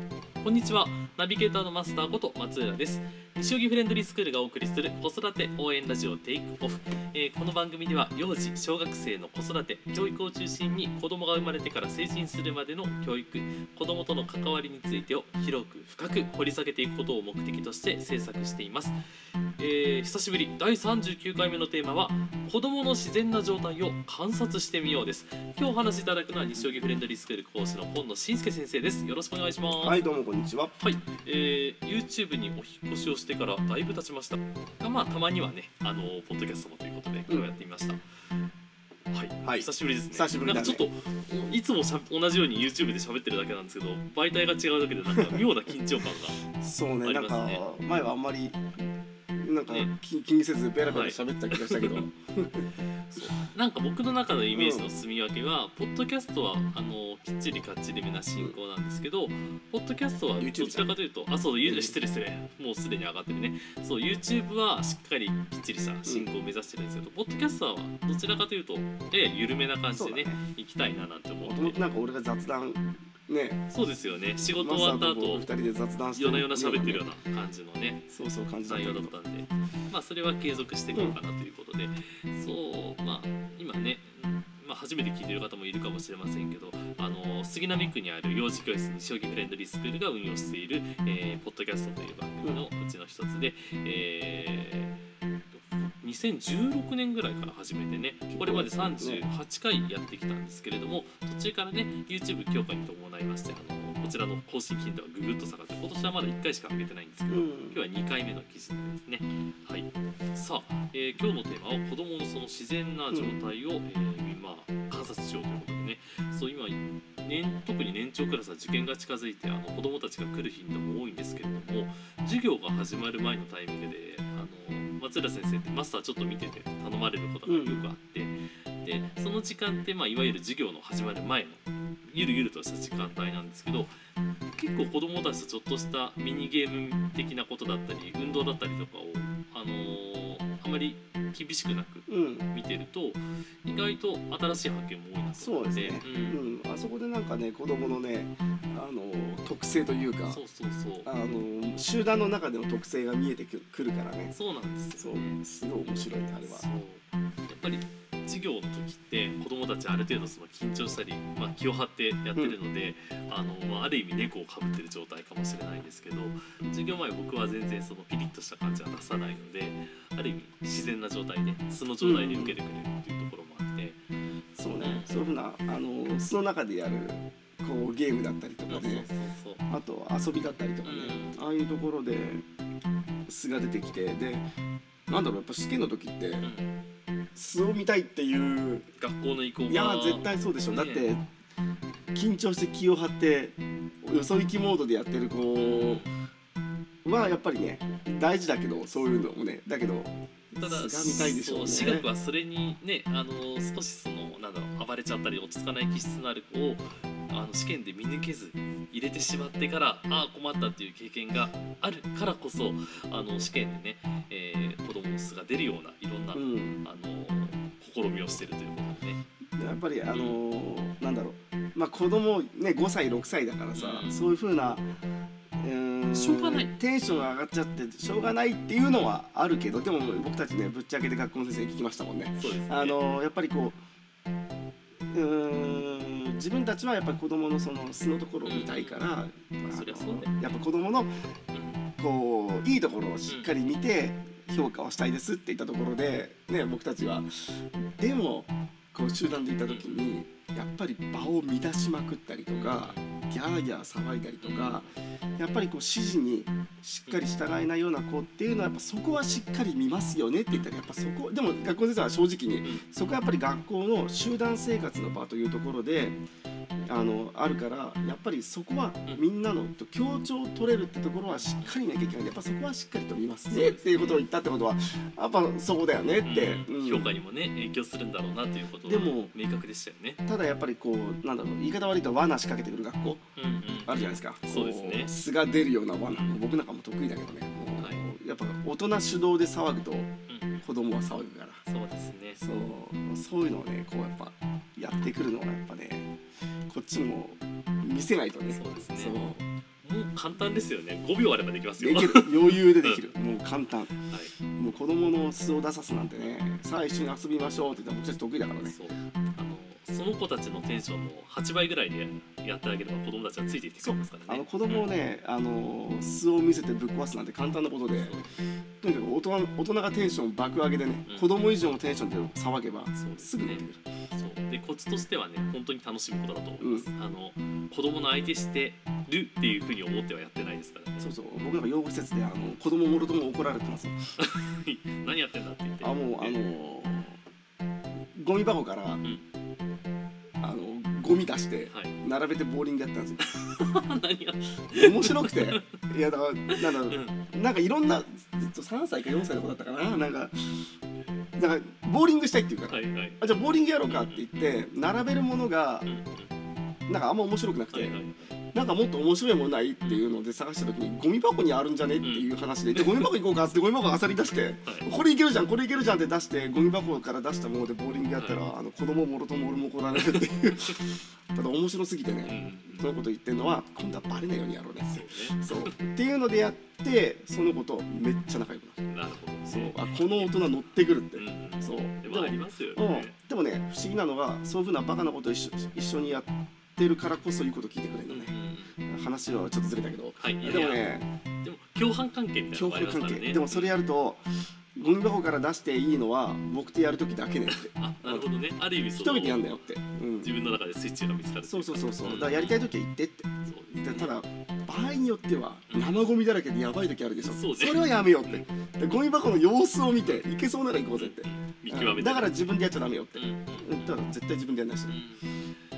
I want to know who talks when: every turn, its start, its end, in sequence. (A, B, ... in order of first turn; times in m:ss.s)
0:00.4-0:19.0 A
0:19.6-0:30.2 A
0:26.6-0:26.9 B
0:29.6-0:30.8 B
0:30.8-0:38.0 A
0:39.1-0:46.4 A
0:39.4-0:40.9 B
0:46.6-0:48.6 B
0:47.0-0:47.6 A
0:49.4-0:52.7 B
0:49.7-0:49.9 A
0:50.8-0:52.1 A
0:53.1-1:11.8 A
0:54.5-0:54.9 B
1:00.4-1:00.9 B
1:01.6-1:02.0 B
1:09.9-1:10.4 B
1:11.4-1:13.6 B
1:13.7-1:15.5 A
1:14.5-1:17.1 B
1:16.2-1:35.0 A
1:18.1-1:19.1 B
1:35.6-2:14.0 A
1:38.3-1:39.3 B
1:47.3-1:47.8 B
1:53.1-1:53.4 B
2:07.5-2:07.9 B
2:14.6-2:26.4 A
2:22.1-2:22.5 B
2:25.4-2:30.4 B
2:30.3-2:31.1 A
2:31.0-2:34.4 B
2:34.3-2:54.0 A
2:35.0-2:36.7 B
2:52.0-2:52.6 B
2:54.6-2:59.1 B
2:54.8-2:55.2 A
2:58.7-2:59.6 A
2:59.7-3:02.4 B
3:00.8-3:01.4 A
3:03.3-3:04.5 B
3:05.1-3:06.5 B
3:06.4-3:06.8 A
3:07.4-3:08.9 B
3:09.0-3:11.1 A
3:09.7-3:11.3 B
3:12.1-3:16.0 B
3:15.6-3:16.2 A
3:17.0-3:22.1 B
3:20.6-3:39.2 A
3:36.3-3:36.8 B
3:39.6-3:44.9 B
3:40.1-3:40.4 A
3:43.7-3:44.3 A
3:45.6-3:53.8 B
3:46.1-3:47.4 A
3:50.0-3:50.3 A
3:52.4-3:53.0 A
3:55.1-4:01.1 B
3:58.4-3:59.1 A
3:59.6-4:00.6 A
4:01.5-4:01.8 A
4:02.0-4:26.2 B
4:03.3-4:03.5 A
4:09.7-4:10.1 A
4:12.5-4:13.1 A
4:14.4-4:15.0 A
4:17.1-4:17.4 A
4:22.6-4:23.2 A
4:26.9-4:37.1 B
4:31.3-4:31.8 A
4:33.5-4:34.3 A
4:36.2-4:40.2 A
4:38.8-4:39.3 B
4:40.3-4:43.3 B
4:43.4-4:45.1 A
4:43.8-4:51.6 B
4:46.1-4:46.4 A
4:50.3-4:50.7 A
4:51.7-4:52.4 A
4:52.4-4:56.1 B
4:56.7-4:59.4 B
4:58.5-4:59.2 A
4:59.8-5:03.1 A
5:01.8-5:03.9 B
5:04.0-5:04.4 A
5:04.6-5:08.8 B
5:08.6-5:14.9 A
5:13.8-5:18.2 B
5:18.0-5:18.3 A
5:18.8-5:23.8 B
5:21.1-5:21.3 A
5:23.0-5:31.1 A
5:26.6-5:26.9 B
5:31.0-5:34.0 B
5:34.2-5:36.4 A
5:35.8-5:37.2 B
5:38.2-5:39.0 B
5:40.4-5:43.7 B
5:41.7-5:42.0 A
5:43.3-5:45.6 A
5:44.7-5:50.5 B
5:46.6-5:47.2 A
5:51.4-5:55.9 B
5:52.7-5:53.2 A
5:53.8-5:54.6 A
5:55.8-5:56.3 A
5:56.9-5:58.0 B
5:57.7-5:58.3 A
5:58.5-6:18.8 B
5:59.8-6:00.2 A
6:02.0-6:03.1 A
6:08.2-6:08.4 A
6:10.0-6:10.8 A
6:12.2-6:12.9 A
6:14.9-6:15.8 A
6:18.9-6:20.6 A
6:19.5-6:31.1 B
6:21.2-6:23.2 A
6:28.1-6:28.8 A
6:30.2-6:30.9 A
6:31.4-6:33.8 A
6:32.5-6:34.2 B
6:34.8-6:38.3 B
6:37.5-6:39.6 A
6:38.9-6:40.3 B
6:40.2-6:42.7 A
6:41.5-6:55.0 B
6:43.5-6:44.2 A
6:45.7-6:46.1 A
6:47.2-6:48.4 A
6:51.0-6:52.6 A
6:53.1-6:54.0 A
6:54.9-6:55.5 A